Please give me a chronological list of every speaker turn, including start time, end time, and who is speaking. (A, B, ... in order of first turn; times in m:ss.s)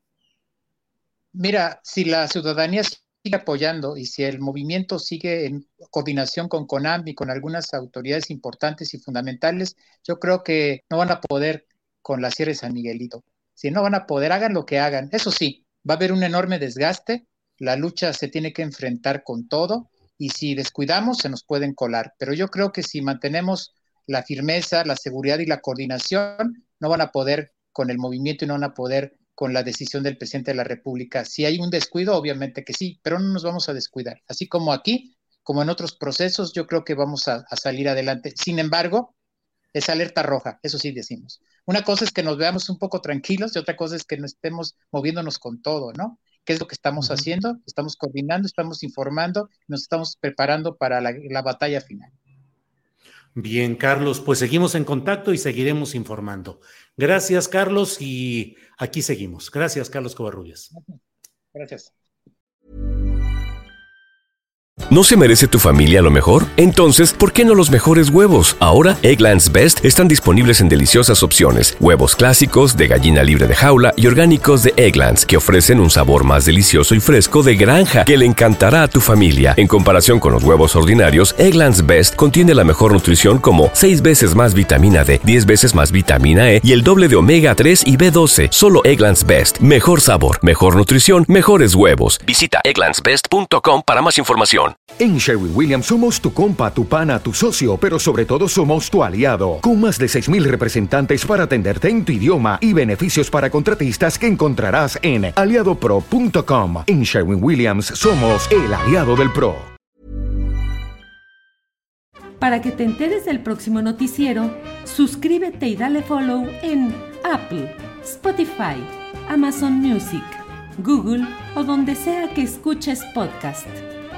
0:01.3-0:39.1 A
0:39.7-0:52.1 A
0:53.3-1:00.7 B
1:00.7-1:01.0 A
1:01.5-1:01.9 A
1:04.9-1:34.8 C
1:35.0-1:49.7 D
1:52.4-2:03.8 E